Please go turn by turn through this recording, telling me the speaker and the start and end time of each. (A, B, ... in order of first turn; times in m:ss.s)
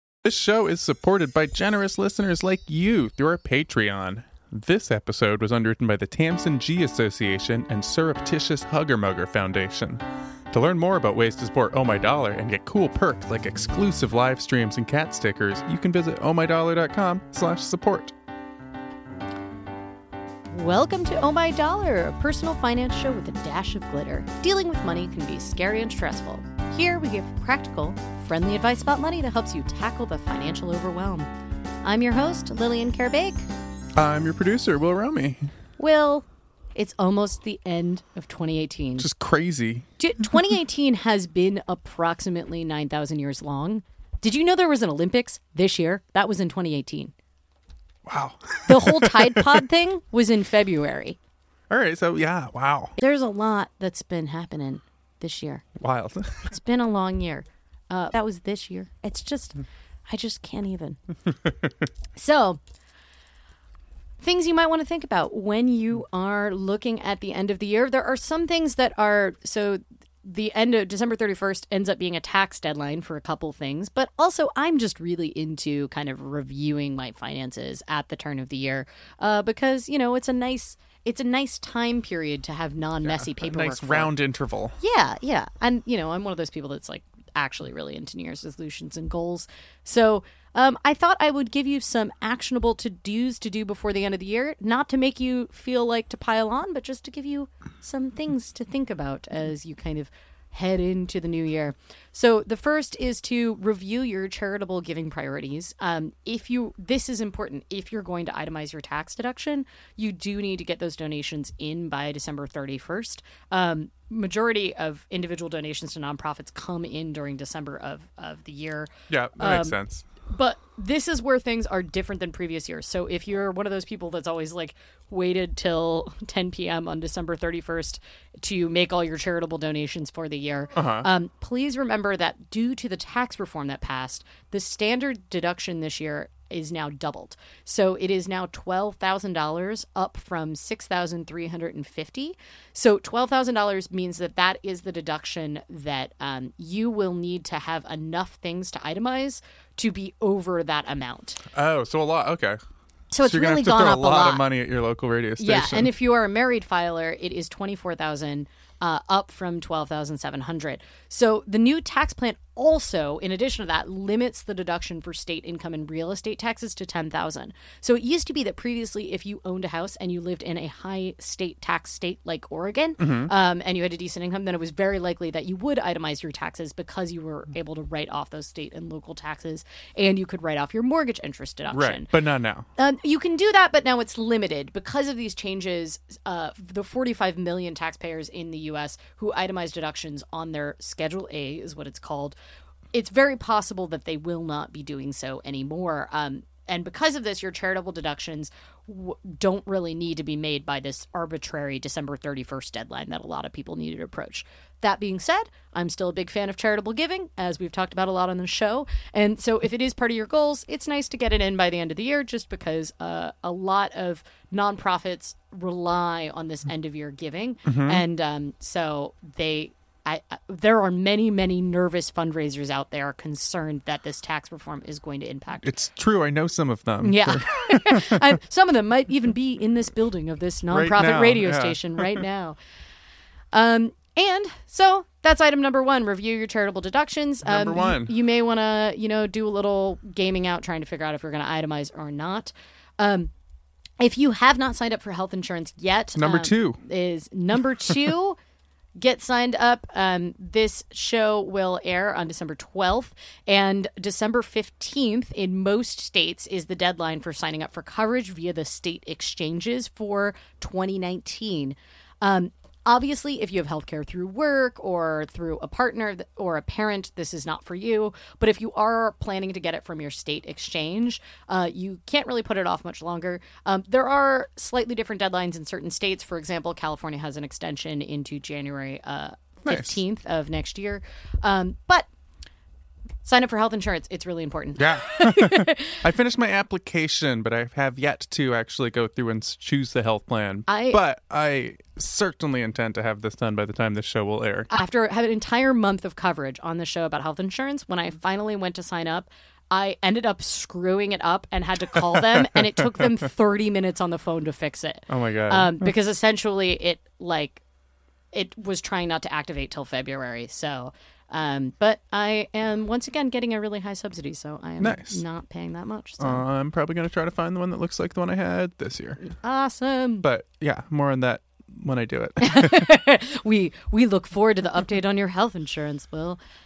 0:00.2-0:18.1 A
0:20.5-0:31.3 B
0:31.8-0:33.4 B
0:34.0-0:35.5 A
0:35.8-0:39.1 B
0:39.0-0:39.8 A
0:40.0-0:47.1 B
0:48.0-0:49.6 A
0:48.7-0:51.2 B
0:51.7-0:52.9 A
0:53.0-0:55.6 B
0:55.8-0:56.4 A
0:56.5-1:01.0 B
1:02.2-1:02.6 B
1:04.2-1:24.1 B
1:23.0-1:24.7 A
1:24.8-2:31.4 B
1:59.1-2:00.1 A
2:10.8-2:11.1 A
2:31.5-2:32.6 A
2:33.1-2:34.4 B
2:33.2-2:35.9 A
2:35.4-3:02.1 B
2:53.0-2:53.3 A
3:01.7-3:02.7 A
3:02.8-3:12.4 B
3:12.9-3:45.7 B
3:37.6-3:38.0 A
3:45.6-3:48.2 A
3:47.0-3:52.6 B
3:50.7-3:52.2 A
3:53.5-4:03.3 B
3:57.4-3:58.1 A
4:04.0-4:08.4 B
4:06.2-4:06.8 A
4:09.0-4:42.1 B
4:39.7-4:40.0 A
4:43.2-4:46.0 B
4:44.8-4:54.7 A
4:50.7-4:51.0 B
4:54.7-5:07.6 B
5:05.1-5:05.9 A
5:08.3-5:16.4 B
5:14.8-5:15.2 A
5:16.2-5:19.3 A
5:19.2-5:20.2 B
5:20.2-5:22.9 A
5:22.4-5:26.4 B